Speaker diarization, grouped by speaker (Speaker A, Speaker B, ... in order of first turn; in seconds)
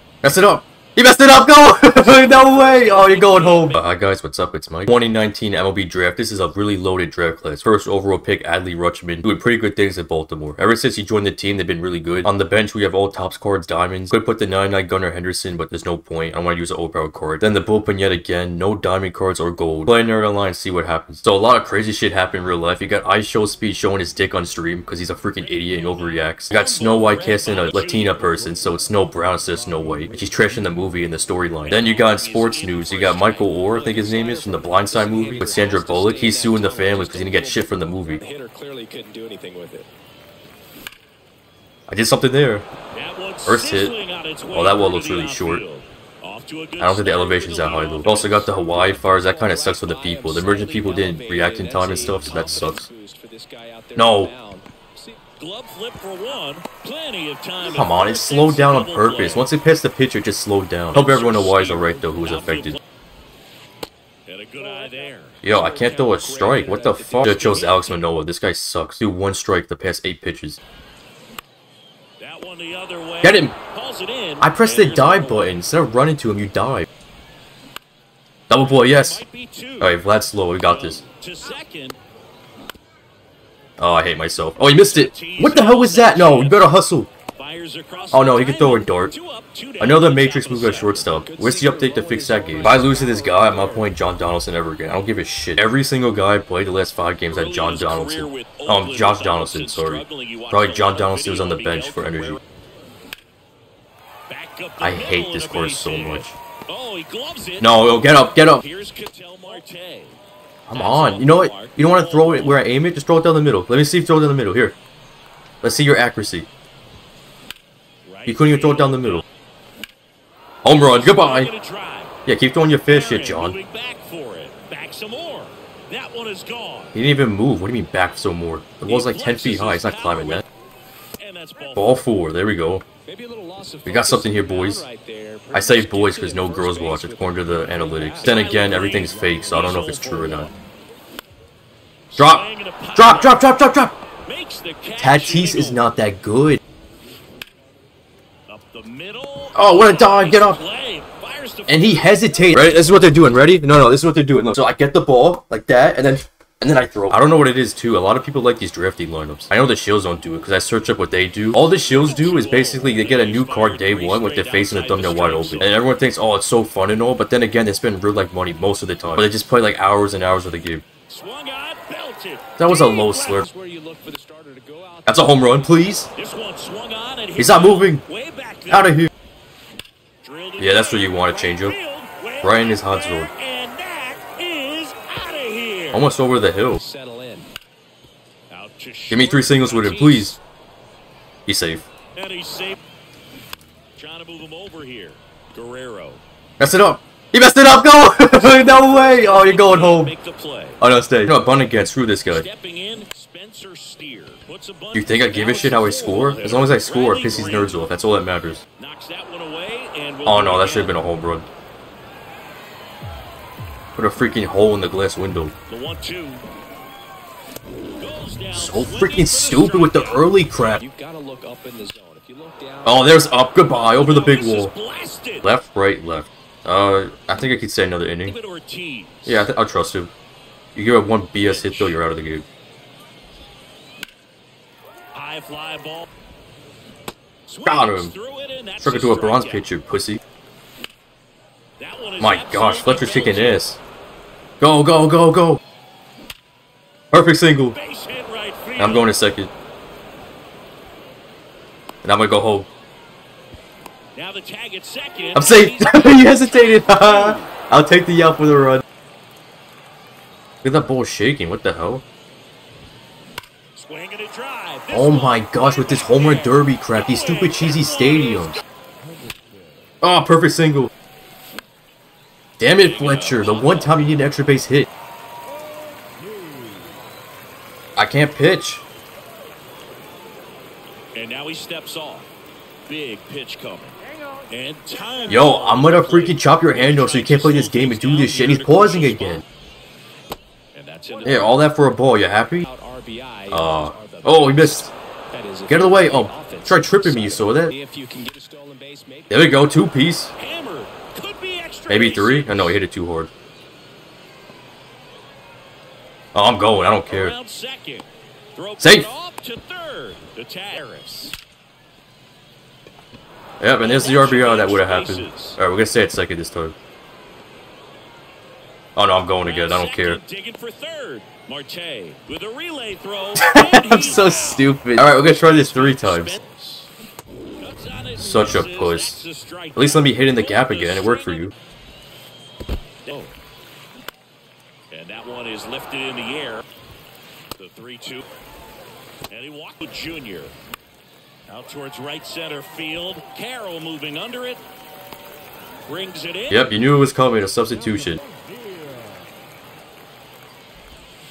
Speaker A: 0.2-38.2, 41.9-42.7, 43.5-43.9, 44.5-45.6, 46.8-52.9, 54.0-54.3, 57.6-62.8, 65.4-70.6, 73.2-73.5, 74.4-76.9, 78.5-79.2, 79.8-81.0, 83.8-87.1, 88.1-89.1, 89.8-102.4, 104.8-106.4, 107.6-108.6, 110.7-114.8, 115.6-116.5, 118.3-119.2, 120.6-121.5, 122.3-123.6, 126.9-130.4, 131.8-132.8, 133.9-134.9, 135.5-140.5, 142.2-144.0, 145.0-146.6, 149.5-150.6, 151.7-170.8, 172.6-173.5, 175.1-176.1, 177.4-178.0, 178.7-179.1, 180.6-181.8, 182.4-183.3, 185.9-186.8, 189.1-190.4, 191.5-191.9, 196.6-200.1, 200.8-202.5, 204.9-208.6, 210.3-211.5, 214.0-215.5, 218.5-220.8, 222.8-224.7, 225.4-228.4, 229.3-230.1, 230.8-232.4, 237.7-238.1, 238.8-240.2, 242.2-243.8, 244.6-245.6, 247.1-247.8, 248.8-249.5, 252.0-252.7, 255.3-258.8, 260.6-262.0, 264.9-268.6, 270.0-270.9, 272.6-274.9, 278.0-278.8, 285.3-289.4, 291.2-292.7, 293.5-294.9, 295.7-297.7, 299.3-300.3, 301.9-303.3, 306.3-307.4, 308.8-309.1, 313.6-316.8, 318.9-320.2, 323.4-326.4, 328.2-329.2, 329.8-331.5, 346.5-348.2
Speaker B: 2.1-3.8, 26.4-28.6, 31.7-33.8, 42.9-48.6, 55.4-59.5, 61.0-62.8, 64.3-65.4, 72.2-75.5, 78.5-79.9, 80.6-82.0, 84.7-86.7, 87.4-91.2, 92.5-92.8, 97.3-102.4, 104.3-110.2, 110.7-112.6, 118.0-119.2, 120.7-122.2, 122.9-127.0, 128.8-130.4, 131.2-132.0, 137.8-140.5, 142.1-143.6, 144.2-145.9, 148.5-152.8, 161.8-165.7, 171.1-173.1, 176.1-179.0, 180.2-186.1, 188.5-190.4, 192.1-192.8, 193.9-196.2, 198.4-200.8, 202.3-207.9, 208.8-211.0, 215.7-216.4, 218.0-220.6, 223.6-225.5, 228.2-229.5, 231.4-232.0, 235.1-236.1, 237.5-239.6, 241.8-243.7, 247.7-249.1, 254.2-257.5, 263.8-268.6, 272.7-274.1, 281.1-282.3, 282.9-289.4, 290.7-291.6, 300.4-302.8, 307.0-311.4, 313.8-315.6, 319.4-326.9, 327.6-331.5, 333.1-333.4, 334.9-336.6, 337.6-338.2, 339.3-340.6, 341.5-344.6, 345.9-346.7
Speaker C: 29.5-30.5, 33.7-39.9, 48.8-55.2, 65.5-67.9, 91.2-93.9, 133.1-138.3, 172.9-175.5, 186.8-187.5, 220.8-223.2, 292.6-299.4